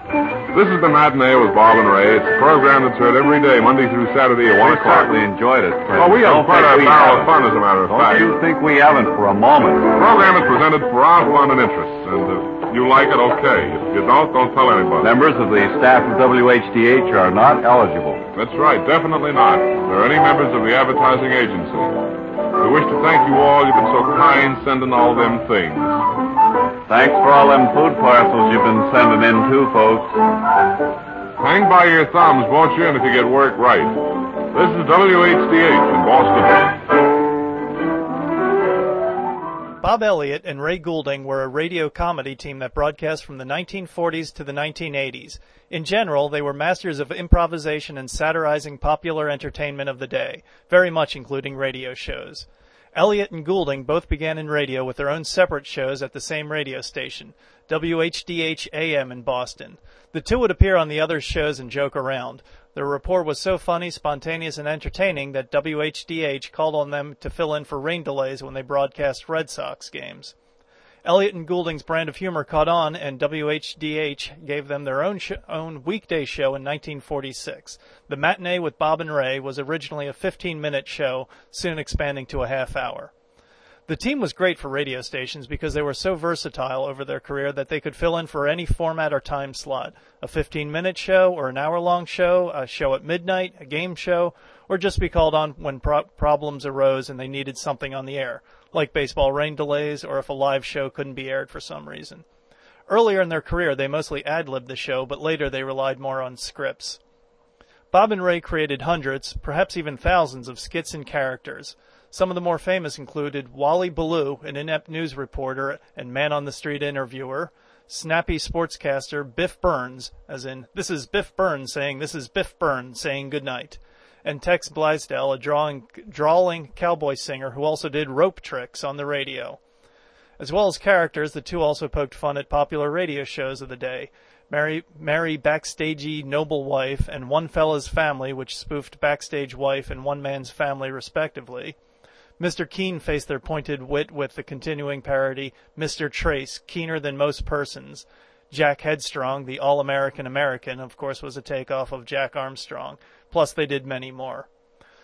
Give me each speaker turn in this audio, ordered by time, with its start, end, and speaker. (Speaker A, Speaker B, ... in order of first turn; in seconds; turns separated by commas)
Speaker A: 0.5-5.2, Speaker B: 4.6-7.3, Speaker A: 6.0-8.4, Speaker B: 7.9-9.9, Speaker A: 9.9-15.1, Speaker B: 15.0-18.2, Speaker A: 18.4-22.1, Speaker A: 22.6-26.1, Speaker B: 26.9-30.2, Speaker A: 31.4-34.0, Speaker A: 34.5-36.8, Speaker C: 39.8-70.3, Speaker C: 71.0-83.1, Speaker C: 83.9-102.2, Speaker C: 102.9-107.0, Speaker C: 107.9-129.6, Speaker C: 130.4-141.8, Speaker C: 142.4-154.5